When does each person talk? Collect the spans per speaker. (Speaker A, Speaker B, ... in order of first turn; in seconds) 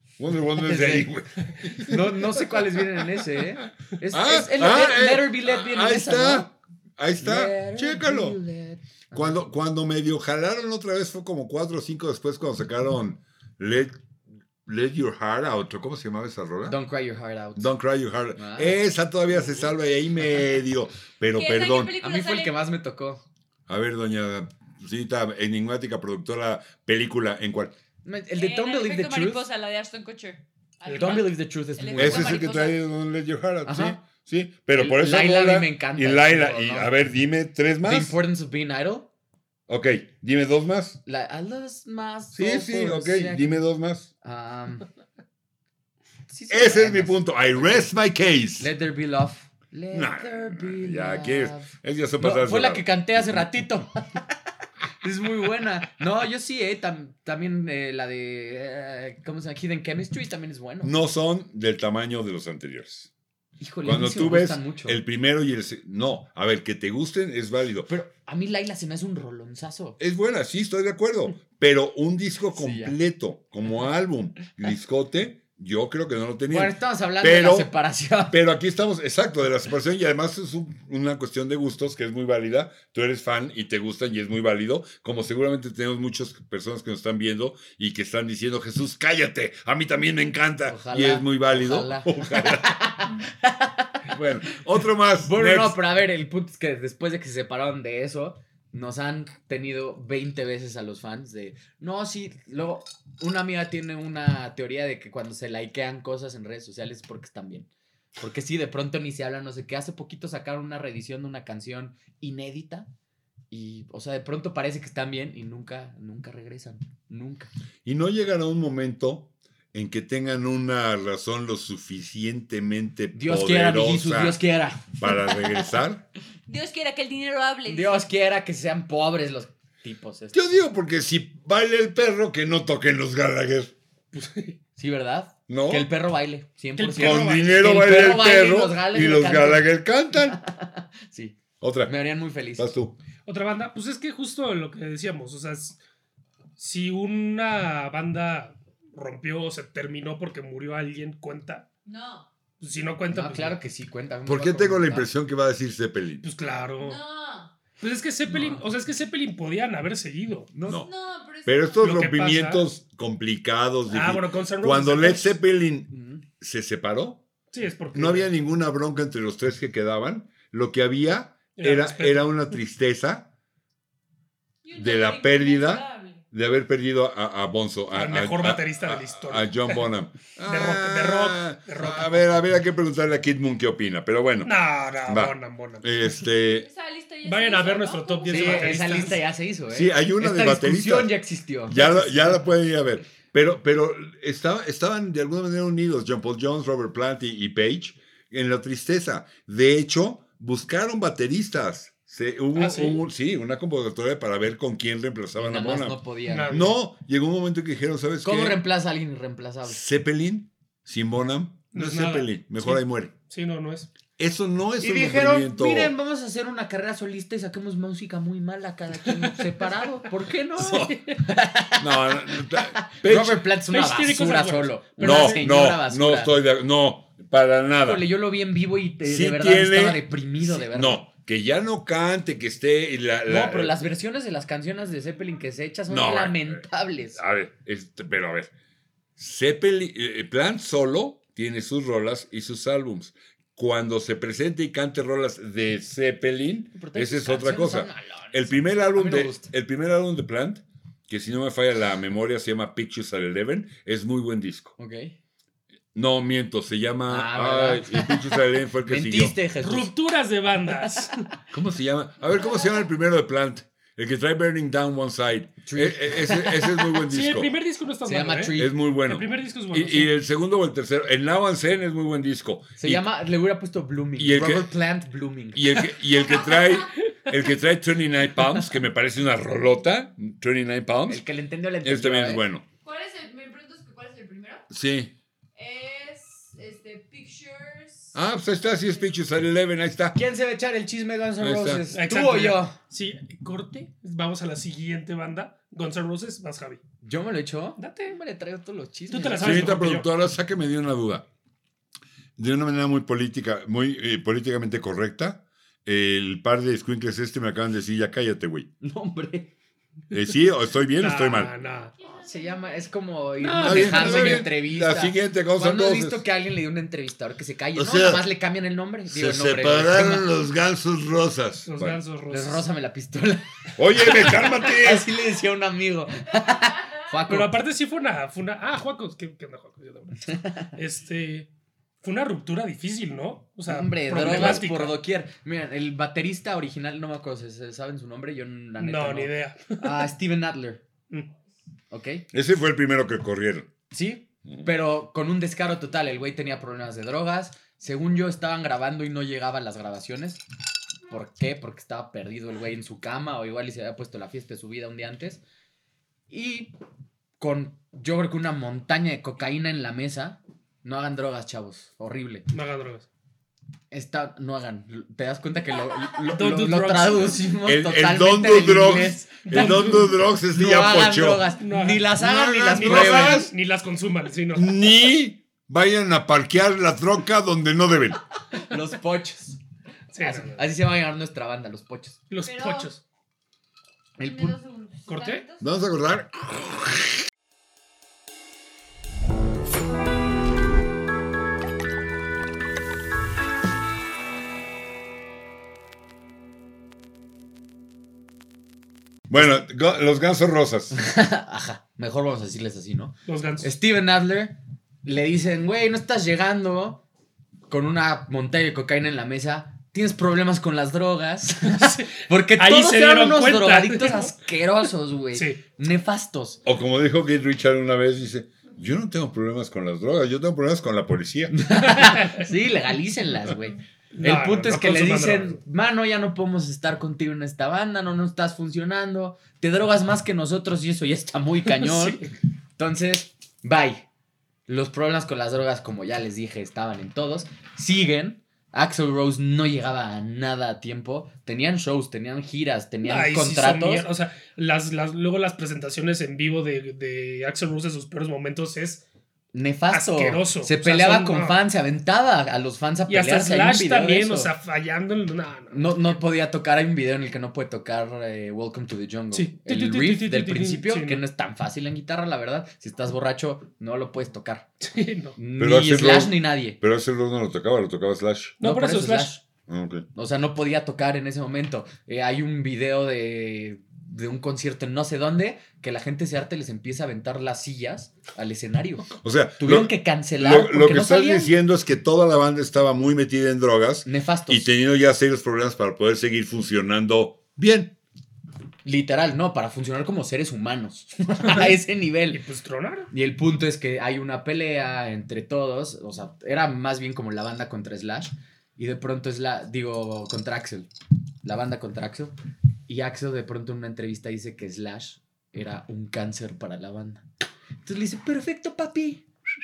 Speaker A: 0.2-2.8, 4.1-8.4, 9.1-13.9, 14.7-16.8, 17.6-22.0, 23.7-27.7, 32.0-38.2, 39.7-41.0, 42.3-44.1, 46.5-48.7, 49.9-53.5, 60.8-63.1, 63.9-67.9, 70.0-77.7, 78.3-92.8, 94.1-95.8, 117.8-124.4, 124.9-126.0, 130.3-133.7, 135.5-135.9, 137.0-140.4, 141.6-141.9, 142.6-142.9, 154.3-156.2, 158.3-158.6, 161.5-167.2, 167.9-173.3, 174.8-184.5, 185.1-186.7, 189.7-191.1, 191.7-208.6, 209.7-213.1, 214.2-215.9, 220.6-221.0, 221.8-223.4, 225.0-228.1, 229.0-233.8, 235.9-236.7, 237.2-238.5, 239.2-254.7, 255.9-259.4, 261.5-267.5, 268.6-273.1, 274.2-274.7, 275.5-281.2, 281.8-282.6, 284.7-285.1, 288.1-290.2, 291.4-291.8, 299.4-301.2, 302.4-308.7, 310.1-311.5, 313.6-316.2, 317.8-318.3, 319.1-322.0, 323.8-325.1, 334.1-334.7, 342.3-343.7, 367.6-371.5, 372.2-373.5, 374.5-378.2, 385.6-387.1, 399.3-400.9, 416.6-421.5, 465.6-468.6, 469.7-470.1, 479.2-487.9
Speaker B: 0.5-1.1, 1.7-6.5, 7.2-9.4, 16.6-17.7, 18.4-18.8, 22.0-23.2, 28.0-29.4, 30.9-32.5, 33.6-34.0, 34.8-36.9, 37.8-39.1, 41.1-43.5, 44.2-44.9, 46.3-47.9, 48.6-54.4, 55.0-60.9, 63.6-65.0, 67.9-70.0, 72.5-73.0, 76.5-78.4, 90.7-94.2, 95.2-112.9, 113.5-117.5, 123.1-125.8, 127.7-130.4, 134.8-139.7, 140.3-142.7, 153.1-155.1, 160.5-160.8, 165.9-166.2, 188.3-192.4, 205.4-206.7, 208.2-209.8, 214.8-226.3, 227.8-231.0, 233.3-237.2, 246.7-249.5, 254.8-255.1, 257.1-259.9, 265.6-267.0, 268.1-268.7, 272.8-275.9, 281.1-282.4, 290.1-292.8, 297.0-299.8, 308.8-309.5, 312.2-320.3, 322.3-327.6, 330.3-330.7, 333.7-340.8, 341.9-342.2, 343.9-350.4, 351.1-355.4, 356.3-356.8, 357.4-362.5, 363.9-373.4, 378.6-379.6, 380.2-382.2, 384.2-384.6, 400.9-407.0, 407.7-416.6, 421.5-432.2, 432.8-434.1, 434.7-444.1, 449.5-454.5, 455.7-464.7, 465.4-466.8, 468.6-469.4, 470.1-481.5, 484.1-484.7, 488.8-492.4, 493.1-500.9, 501.4-502.3, 502.9-507.2, 507.8-509.2
Speaker C: 21.3-22.6, 28.4-32.8, 126.5-128.1, 151.9-152.3, 156.8-157.5, 160.7-161.9, 174.6-176.2, 186.5-188.9, 276.2-276.9, 282.8-284.7, 285.6-289.0, 312.0-312.9, 382.4-382.9, 384.2-385.8
Speaker D: 30.9-31.2, 134.1-134.6, 136.8-137.7, 143.3-145.8, 146.6-151.7, 152.6-153.6, 156.2-157.0, 157.8-160.5, 161.8-162.7, 163.9-165.4, 167.5-168.3, 171.6-172.4, 177.9-179.8, 180.5-182.3, 184.4-185.9, 187.2-189.2, 202.6-203.0, 206.3-206.8, 211.7-213.9, 220.7-221.2, 223.7-225.4, 259.6-261.2, 267.1-270.1, 291.9-296.8, 297.8-298.1, 299.1-300.1, 311.0-311.9, 313.4-314.5, 321.7-322.6, 327.3-331.5, 332.0-335.0, 338.8-340.1, 362.5-363.1, 366.3-367.4, 369.4-370.1, 371.6-374.8, 380.1-380.7, 382.3-383.0, 385.1-385.4, 403.3-403.7, 411.6-414.3, 421.8-422.5, 424.1-425.6, 431.7-432.3, 443.0-449.0, 449.9-451.6, 453.1-456.2, 459.3-461.2, 464.8-465.4, 468.6-469.3, 491.4-491.8, 492.3-493.1